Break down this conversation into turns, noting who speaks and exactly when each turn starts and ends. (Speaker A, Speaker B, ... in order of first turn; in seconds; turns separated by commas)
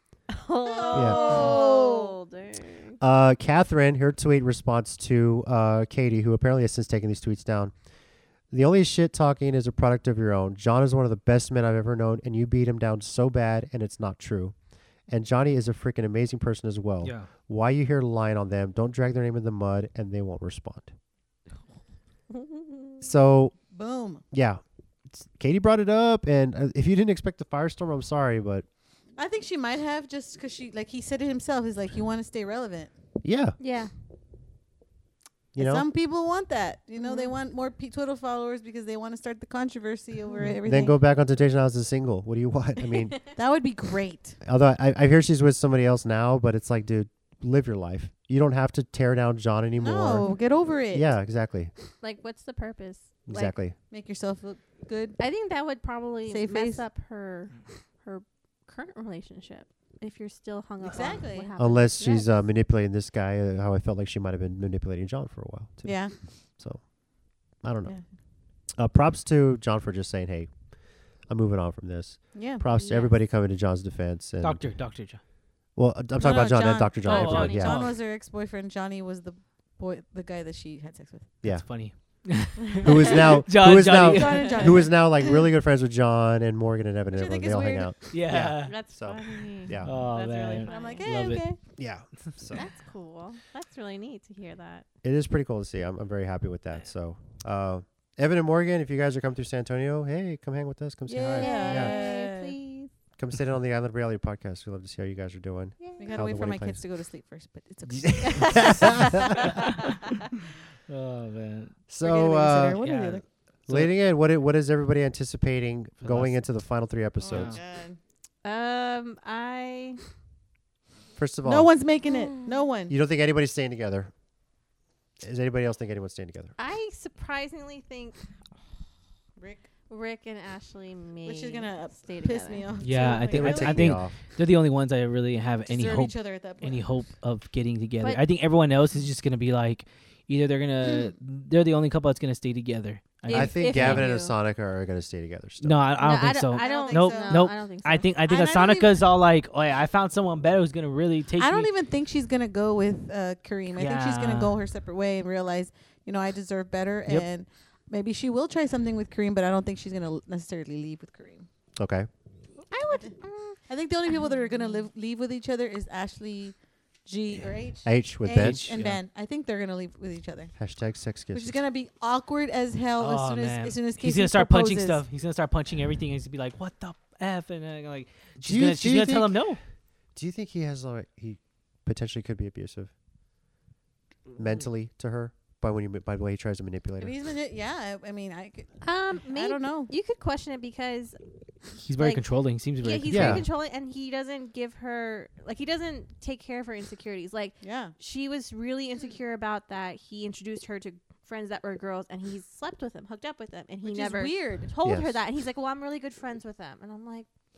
Speaker A: 0.3-3.0, Speaker B: 0.7-2.2, Speaker C: 0.9-1.6, Speaker C: 3.0-7.7, Speaker C: 8.5-14.6, Speaker C: 15.1-20.9, Speaker D: 17.0-17.3, Speaker A: 22.3-22.9, Speaker C: 23.0-23.5, Speaker B: 23.7-24.2, Speaker C: 24.3-28.6, Speaker B: 29.2-32.9, Speaker C: 33.2-33.6, Speaker A: 33.6-33.9, Speaker C: 35.5-35.9, Speaker B: 35.6-41.0, Speaker A: 37.0-37.3, Speaker C: 40.7-43.2, Speaker B: 43.4-44.4, Speaker C: 44.4-50.3, Speaker B: 49.8-51.1, Speaker C: 50.9-51.7, Speaker A: 52.0-53.5, Speaker C: 53.3-53.8, Speaker B: 53.9-55.2, Speaker A: 55.2-62.4, Speaker B: 56.3-56.8, Speaker B: 60.8-61.5, Speaker C: 61.6-66.8, Speaker B: 65.8-66.1, Speaker C: 67.6-68.0, Speaker C: 68.8-70.5, Speaker C: 71.3-74.8, Speaker B: 72.3-72.6, Speaker A: 72.7-73.2, Speaker D: 74.4-75.2, Speaker C: 75.8-77.8, Speaker B: 76.2-81.3, Speaker D: 77.0-77.9, Speaker A: 77.1-77.8, Speaker C: 81.4-81.7, Speaker D: 81.4-84.8, Speaker C: 82.8-90.0, Speaker B: 83.7-85.5, Speaker B: 87.1-87.9, Speaker D: 88.1-88.8, Speaker A: 88.6-91.1, Speaker D: 89.8-91.4, Speaker B: 90.7-91.6, Speaker C: 91.8-92.6, Speaker A: 92.5-94.8, Speaker C: 95.0-102.0, Speaker B: 101.1-102.6, Speaker A: 101.4-102.9, Speaker C: 103.2-106.8, Speaker A: 105.8-106.2, Speaker B: 106.0-109.8, Speaker C: 107.9-109.4, Speaker A: 108.3-108.6, Speaker D: 110.9-111.8, Speaker C: 111.9-112.8, Speaker B: 112.0-113.2, Speaker D: 112.8-113.9, Speaker C: 113.7-117.6, Speaker D: 116.0-116.4, Speaker B: 117.2-118.0, Speaker D: 117.3-117.6, Speaker A: 118.4-120.0, Speaker C: 121.2-121.7, Speaker B: 121.4-123.0, Speaker A: 122.1-122.5, Speaker C: 122.9-124.1, Speaker C: 125.2-126.5, Speaker A: 126.6-128.2, Speaker B: 129.4-129.7, Speaker A: 129.9-132.7, Speaker B: 131.2-134.0, Speaker D: 132.8-144.1, Speaker C: 133.3-134.2, Speaker B: 135.7-136.9, Speaker A: 143.2-144.3, Speaker C: 143.3-145.9, Speaker D: 145.6-151.7, Speaker A: 146.0-148.1, Speaker B: 146.5-147.5, Speaker B: 148.3-149.0, Speaker B: 151.4-161.5, Speaker D: 153.8-154.6, Speaker C: 161.8-162.1, Speaker A: 162.7-164.3, Speaker B: 163.7-170.5, Speaker C: 167.8-169.0, Speaker D: 168.4-168.9, Speaker C: 170.6-171.6, Speaker B: 171.3-175.0, Speaker D: 173.0-179.6, Speaker C: 178.4-179.4, Speaker C: 180.2-182.9, Speaker C: 184.4-187.1, Speaker B: 187.0-188.7, Speaker A: 188.8-191.2, Speaker B: 189.2-189.9, Speaker D: 191.8-193.4, Speaker A: 191.9-192.2, Speaker A: 192.8-207.3, Speaker C: 193.1-193.4, Speaker B: 197.6-197.9, Speaker B: 203.8-204.7, Speaker C: 204.8-205.2